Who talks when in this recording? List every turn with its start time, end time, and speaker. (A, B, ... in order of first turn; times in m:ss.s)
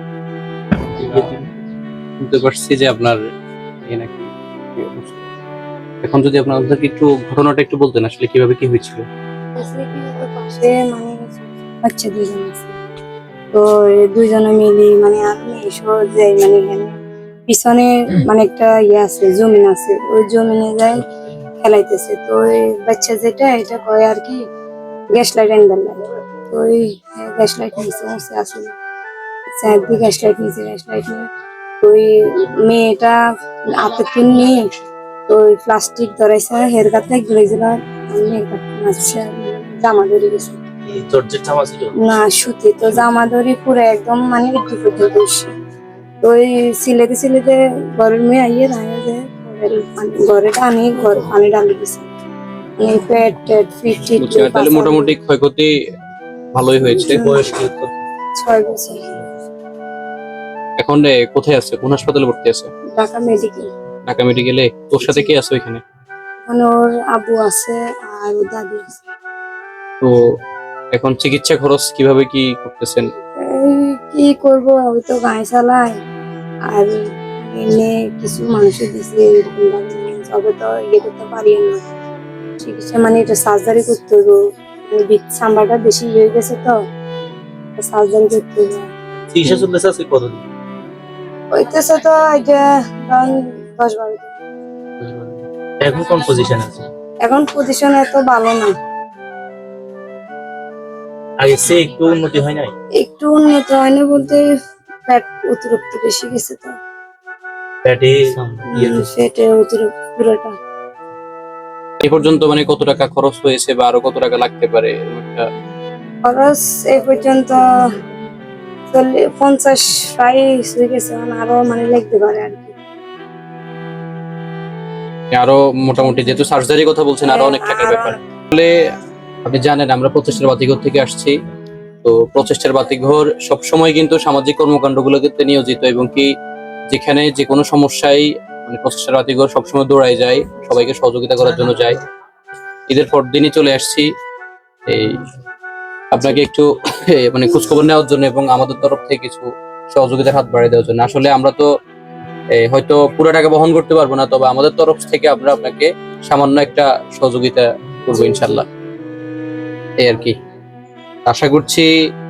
0:01.0-0:01.4 A
0:01.0-0:01.4 B
0:02.2-0:03.2 A
0:03.8-0:05.2 A
0:06.0-0:09.0 A
0:09.6-0:12.7 C
0:13.5-0:16.9 C
0:17.5-0:21.0 C
0:21.6-0:24.4 C
0:25.1-0:28.8 C
0:29.6-0:31.2 C
0:31.8-0:33.2 C
0:33.8-0:34.6 C
0:35.3-0:40.6 C
0:40.9-0:41.9 B
0:42.0-0:45.5 C
0:46.2-0:52.1 C
0:52.8-0:55.1 C
0:54.2-0:55.7 A
0:56.5-0:57.2 A
0:57.0-0:57.4 C
0:57.1-0:57.9 B
0:58.4-0:59.1 C
1:00.8-1:02.7 A
1:02.9-1:03.7 C
1:04.0-1:05.8 A
1:05.0-1:05.3 C
1:06.5-1:09.0 C
1:10.9-1:13.1 A
1:13.4-1:16.0 C
1:16.7-1:21.8 C
1:22.6-1:26.8 C
1:27.8-1:28.9 C
1:29.3-1:30.4 B
1:31.6-1:34.3 C
1:35.0-1:36.9 B
1:37.2-1:38.7 C
1:41.4-1:42.7 B
1:43.0-1:44.4 C
1:45.1-1:46.8 C
1:47.8-1:49.1 B
1:48.7-1:50.5 C
1:52.0-1:55.4 A
1:56.3-1:57.6 C
1:58.9-2:02.7 C
2:05.3-2:08.7 A
2:07.2-2:08.1 C
2:09.4-2:11.3 A
2:12.0-2:16.3 A
2:16.9-2:22.0 A
2:22.9-2:24.0 A
2:24.9-2:25.2 A
2:26.1-2:31.7 A
2:32.6-2:38.7 A
2:38.1-2:38.5 C
2:40.0-2:40.3 A
2:41.2-2:41.9 A